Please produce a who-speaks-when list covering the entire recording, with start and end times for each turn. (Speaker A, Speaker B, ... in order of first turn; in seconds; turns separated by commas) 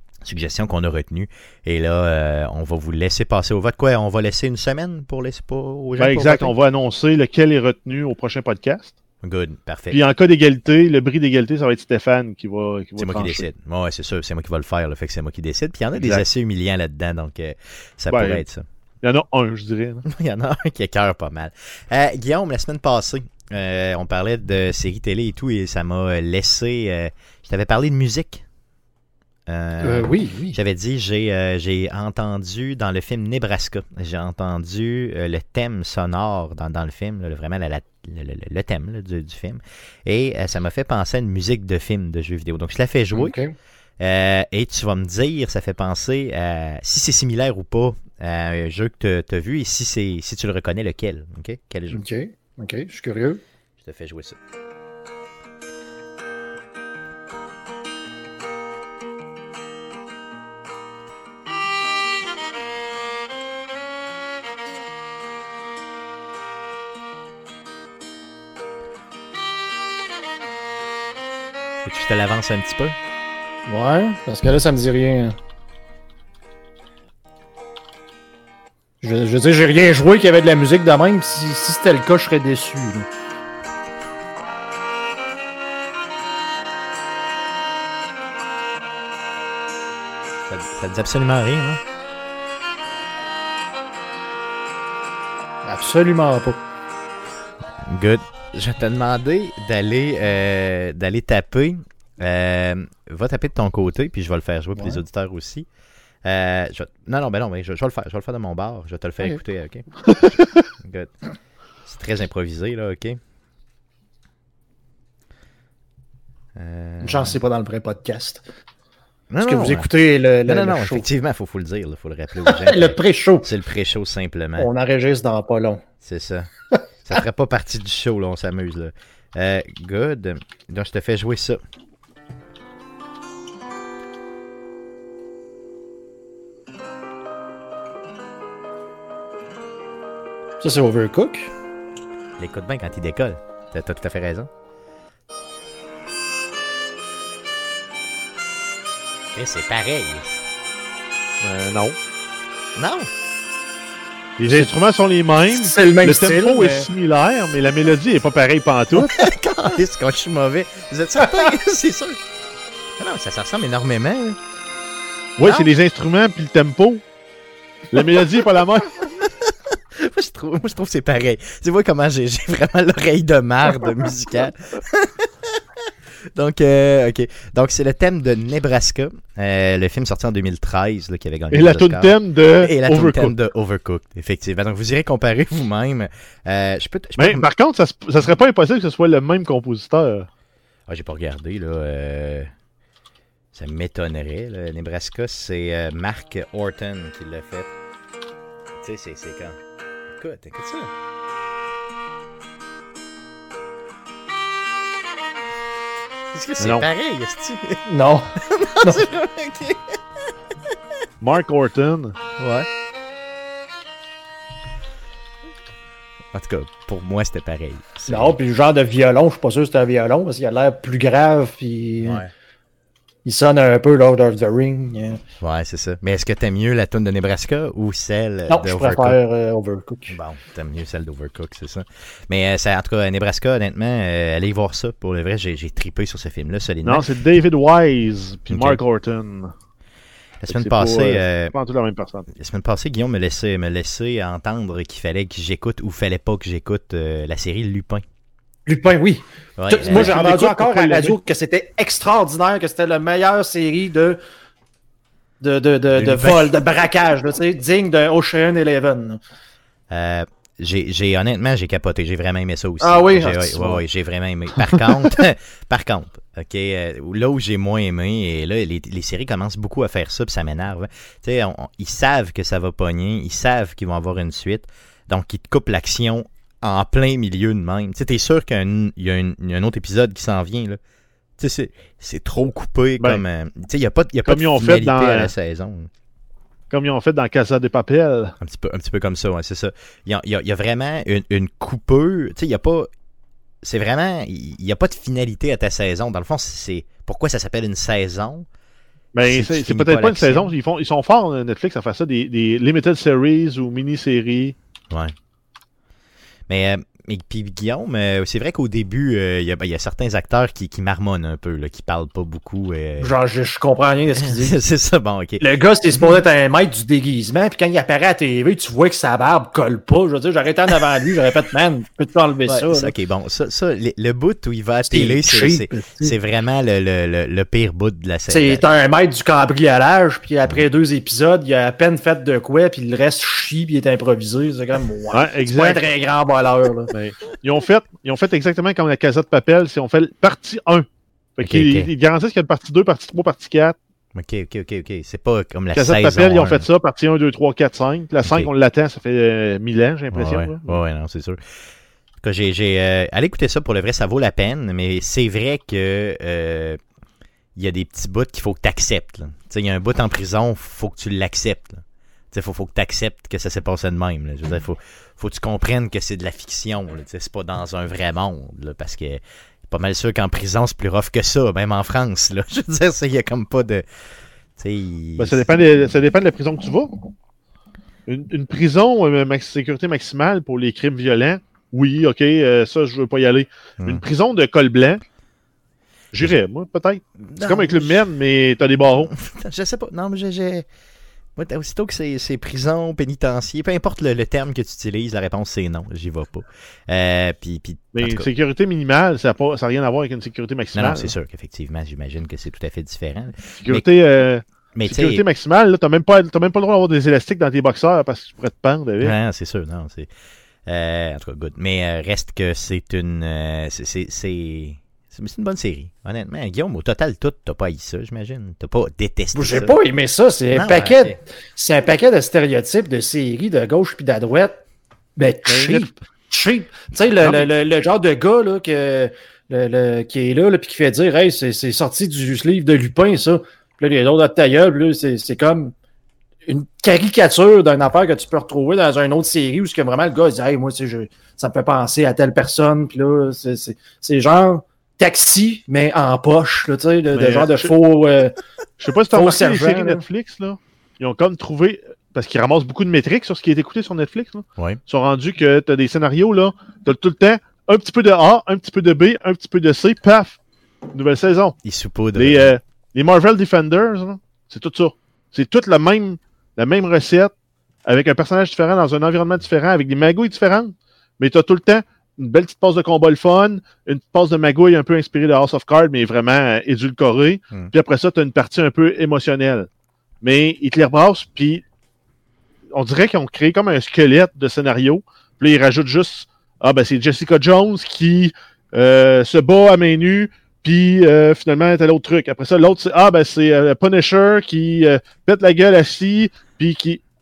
Speaker A: 0.2-6.5, Speaker B: 6.0-8.9, Speaker A: 9.2-10.0, Speaker B: 9.9-13.4, Speaker A: 13.0-18.6, Speaker B: 15.9-16.2, Speaker B: 18.1-18.4, Speaker B: 19.0-20.0, Speaker A: 20.1-28.4, Speaker A: 29.5-43.3, Speaker C: 29.8-30.6, Speaker C: 43.1-43.5, Speaker A: 44.0-52.0, Speaker C: 51.9-53.4, Speaker A: 53.8-54.4, Speaker A: 71.8-73.0, Speaker C: 73.7-75.3, Speaker C: 79.0-83.1, Speaker A: 90.5-91.8, Speaker C: 95.6-96.6, Speaker A: 97.8-105.7, Speaker A: 106.2-110.0, Speaker B: 110.1-110.5, Speaker A: 110.8-111.1, Speaker A: 111.8-113.2, Speaker A: 116.5-117.4, Speaker C: 117.0-118.4, Speaker A: 119.3-119.9, Speaker C: 119.4-121.1, Speaker A: 120.5-124.7, Speaker C: 122.4-123.5, Speaker C: 124.6-125.8, Speaker A: 126.0-126.5, Speaker A: 127.0-131.6, Speaker C: 140.6-141.5, Speaker A: 142.4-144.5, Speaker A: 149.3-150.4, Speaker B: 151.4-152.0, Speaker A: 152.8-153.1, Speaker B: 154.4-159.2, Speaker C: 154.5-154.7, Speaker C: 155.5-156.9, Speaker A: 158.9-162.2, Speaker A: 163.0-164.4, Speaker B: 165.4-167.0, Speaker A: 165.4-165.7, Speaker B: 167.9-169.0, Speaker A: 169.0-175.6, Speaker A: 176.3-187.4, Speaker B: 181.5-183.3, Speaker B: 187.2-190.3, Speaker A: 190.9-192.5, Speaker A: 193.5-197.7, Speaker A: 198.8-199.6, Speaker A: 200.1-200.9, Speaker A: 206.3-207.8, Speaker B: 206.6-206.8, Speaker C: 207.8-209.0, Speaker A: 208.5-210.0, Speaker B: 211.2-212.1, Speaker A: 212.4-212.7, Speaker A: 216.3-218.4, Speaker C: 218.1-222.2, Speaker A: 222.0-222.3, Speaker C: 223.2-225.2, Speaker A: 225.4-229.2, Speaker C: 228.5-230.2, Speaker A: 230.1-237.0, Speaker B: 236.8-239.5, Speaker A: 238.5-238.8, Speaker A: 240.4-241.5, Speaker B: 240.5-242.3, Speaker A: 242.3-248.0, Speaker C: 248.7-254.2, Speaker A: 249.6-250.2, Speaker B: 249.8-251.2, Speaker C: 255.4-259.2, Speaker A: 255.9-256.6, Speaker A: 259.9-280.8, Speaker C: 262.8-263.8, Speaker A: 281.4-285.9, Speaker B: 284.2-285.3, Speaker B: 286.7-288.3, Speaker A: 288.4-292.9, Speaker A: 293.6-298.4, Speaker B: 299.1-304.5, Speaker A: 299.2-300.5, Speaker A: 306.5-313.1, Speaker C: 313.0-314.6, Speaker A: 314.1-315.4, Speaker C: 315.4-322.9, Speaker A: 322.4-328.6, Speaker C: 324.8-326.1, Speaker C: 328.3-336.9, Speaker B: 335.1-335.9, Speaker B: 336.9-343.8, Speaker A: 341.4-341.9, Speaker A: 344.1-346.7, Speaker B: 345.7-350.8, Speaker A: 348.2-348.5, Speaker A: 350.1-351.4, Speaker A: 352.2-356.8, Speaker A: 357.6-373.8, Speaker A: 374.6-375.5, Speaker B: 375.2-376.9, Speaker B: 378.1-385.0, Speaker B: 386.1-389.1, Speaker A: 387.3-388.0, Speaker A: 389.1-390.6, Speaker A: 391.4-398.3, Speaker B: 397.9-401.1, Speaker A: 400.7-403.8, Speaker B: 403.6-409.1, Speaker A: 404.8-405.2, Speaker A: 409.0-410.1, Speaker A: 410.6-419.8, Speaker C: 419.3-424.6, Speaker A: 420.5-421.2, Speaker C: 425.1-435.7, Speaker B: 425.4-425.9, Speaker B: 427.2-427.5, Speaker C: 436.4-448.3, Speaker B: 447.1-447.7, Speaker B: 448.8-460.4, Speaker C: 449.1-450.0, Speaker B: 460.9-461.6, Speaker A: 461.6-462.5, Speaker B: 462.1-467.3, Speaker B: 467.9-479.7, Speaker B: 480.2-481.6, Speaker B: 482.7-497.0